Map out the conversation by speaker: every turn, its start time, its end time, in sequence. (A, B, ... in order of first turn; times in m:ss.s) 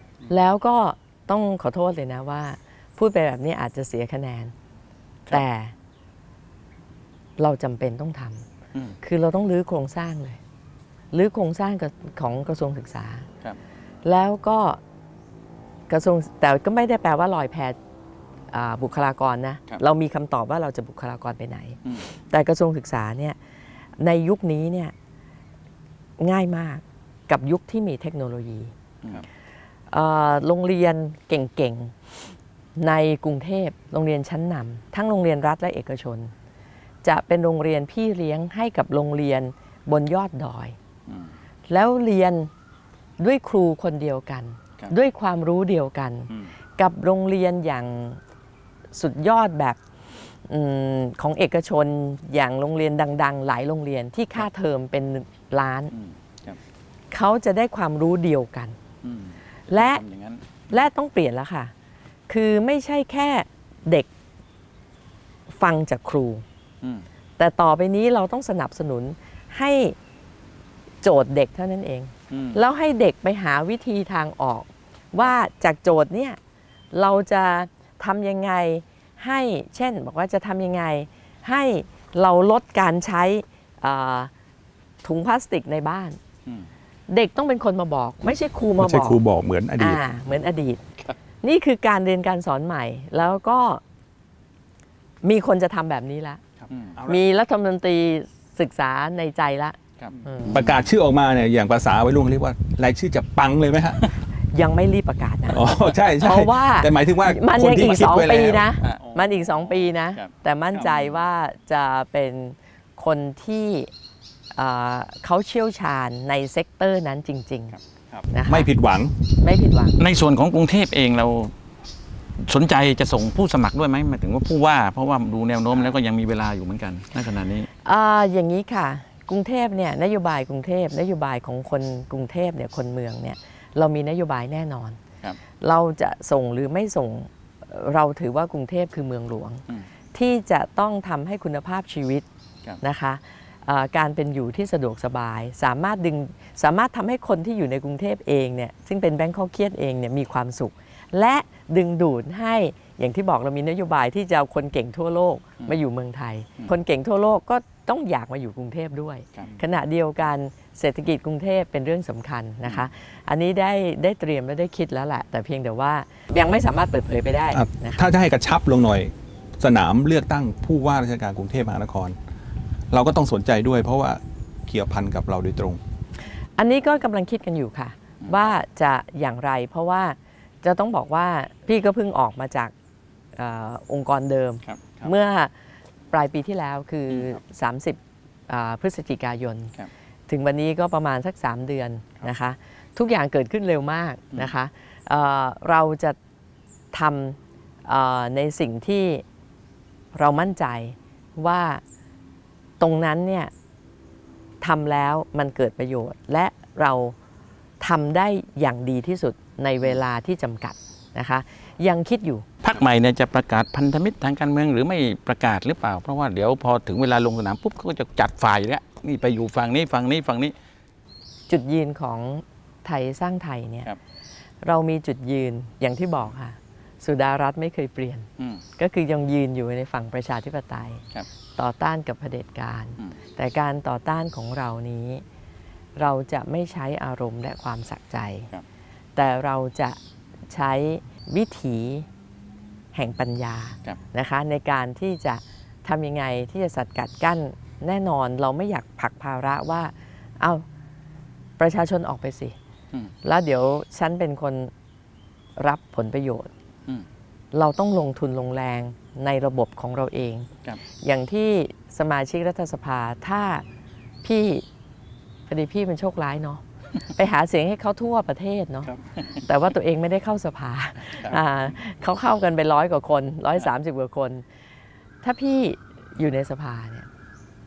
0:00.3-0:04.5 A
0:05.3-0:05.7 A
0:07.4-0:08.5 A
0:09.0-0:10.4 A
0:11.1-0:13.3 A
0:14.0-0:14.8 A
0:15.9-0:17.8 A
0:18.5-0:23.4 A
0:24.0-0:24.9 A
0:26.2-0:28.7 A
0:29.9-0:31.9 A
0:32.8-0:36.3 A
0:37.0-0:40.8 A
0:41.1-0:41.3 B
0:41.7-0:42.5 A
0:43.2-0:48.2 A
0:48.9-0:49.8 A
0:50.5-0:55.9 A
0:55.9-0:56.6 B
0:57.1-0:58.8 A
0:59.0-1:00.6 B
0:59.7-1:00.0 A
1:00.7-1:01.7 A
1:02.3-1:04.1 A
1:05.5-1:06.4 A
1:06.8-1:07.1 B
1:07.4-1:10.0 A
1:11.0-1:16.4 A
1:12.3-1:12.6 B
1:16.9-1:24.3 A
1:25.0-1:26.2 A
1:27.1-1:29.2 A
1:28.8-1:30.0 C
1:29.8-1:30.8 A
1:31.4-1:33.8 A
1:35.2-1:36.4 A
1:36.7-1:37.0 B
1:37.0-1:37.2 C
1:37.1-1:40.6 A
1:40.0-1:40.8 B
1:40.4-1:44.1 C
1:44.5-1:53.9 A
1:45.5-1:48.6 C
1:48.8-1:50.3 B
1:54.6-1:57.8 A
1:58.3-1:58.7 A
1:58.4-1:59.2 C
1:59.4-2:00.0 A
2:00.0-2:01.5 B
2:02.4-2:07.7 B
2:07.8-2:15.0 A
2:15.6-2:19.6 A
2:20.1-2:22.2 A
2:22.8-2:48.1 A
2:47.5-2:52.2 C
2:52.9-2:55.8 C
2:56.6-3:02.7 A
2:58.2-2:58.5 B
3:03.4-3:05.5 A
3:04.6-3:05.1 B
3:06.1-3:09.7 A
3:10.3-3:16.2 A
3:16.9-3:19.2 A
3:20.1-3:21.8 A
3:22.8-3:23.5 A
3:24.6-3:27.2 A
3:27.8-3:32.4 A
3:32.6-3:40.5 B
3:41.5-3:43.9 A
3:44.6-3:51.0 A
3:51.6-3:55.2 A
3:56.0-3:58.5 A
3:59.2-4:00.0 A
4:00.5-4:02.1 A
4:02.9-4:10.6 A
4:11.6-4:12.6 A
4:13.2-4:14.7 A
4:15.6-4:16.5 A
4:17.5-4:20.5 A
4:21.0-4:23.6 A
4:24.2-4:24.6 A
4:25.5-4:34.4 A
4:29.2-4:29.4 B
4:35.2-4:37.1 A